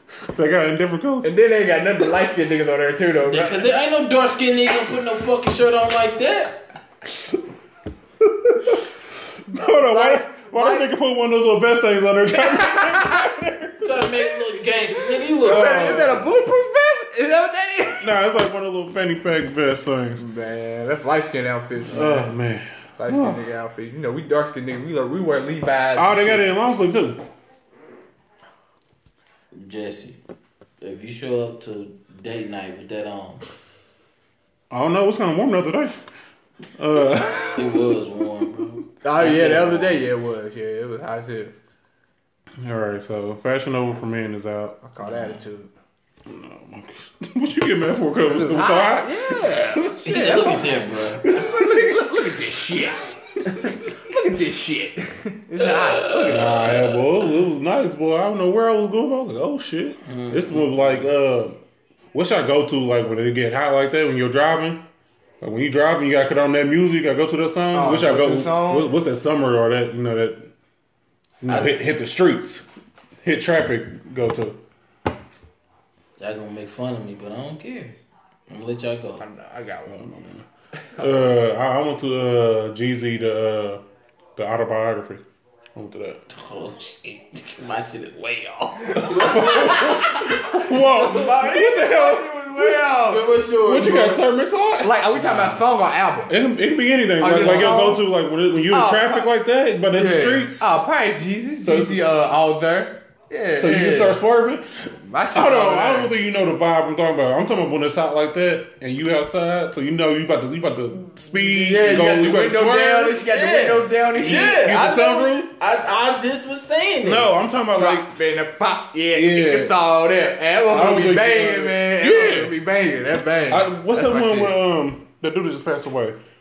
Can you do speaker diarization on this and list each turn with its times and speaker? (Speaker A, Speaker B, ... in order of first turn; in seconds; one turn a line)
Speaker A: 0.3-1.3
Speaker B: 1.2-3.7
Speaker C: 3.2-6.6
Speaker A: 9.5-14.1
Speaker B: 9.6-10.9
Speaker B: 12.4-13.2
Speaker C: 13.8-16.2
Speaker B: 15.3-18.1
Speaker A: 15.4-16.2
Speaker A: 18.0-20.2
Speaker B: 20.2-22.3
Speaker A: 21.9-23.4
Speaker B: 23.0-26.5
Speaker A: 25.9-27.2
Speaker C: 29.5-30.2
Speaker C: 30.8-33.4
Speaker A: 34.7-36.0
Speaker A: 36.8-37.9
Speaker C: 37.5-39.8
Speaker B: 39.0-41.5
Speaker A: 39.2-39.9
Speaker A: 42.6-44.8
Speaker B: 44.8-45.7
Speaker C: 45.0-45.4
Speaker A: 46.3-50.0
Speaker B: 48.3-57.0
Speaker C: 50.0-51.3
Speaker A: 51.2-52.1
Speaker C: 56.0-56.7
Speaker A: 56.3-61.6
Speaker C: 60.0-61.1
Speaker A: 62.1-64.8
Speaker A: 65.4-70.5
Speaker B: 67.7-68.9
Speaker A: 71.4-72.7
Speaker A: 73.2-74.6
Speaker C: 76.2-78.0
Speaker C: 78.5-79.2
Speaker B: 79.2-80.1
Speaker A: 79.9-80.5
Speaker B: 80.8-81.4
Speaker A: 81.0-83.8
Speaker A: 84.4-85.2
Speaker A: 85.7-86.2
Speaker C: 86.3-90.4
Speaker B: 88.9-93.4
Speaker A: 89.0-92.1
Speaker C: 92.6-94.2
Speaker A: 93.6-95.6
Speaker B: 94.8-96.4
Speaker A: 96.3-100.7
Speaker B: 97.2-98.1
Speaker B: 98.7-99.3
Speaker B: 99.9-104.2
Speaker A: 101.6-102.1
Speaker A: 103.5-113.2
Speaker B: 105.1-106.1
Speaker B: 111.4-114.8
Speaker C: 113.2-117.3
Speaker A: 114.2-115.5
Speaker A: 117.0-118.1
Speaker B: 117.7-124.6
Speaker A: 119.1-119.7
Speaker A: 120.7-122.5
Speaker A: 123.5-126.2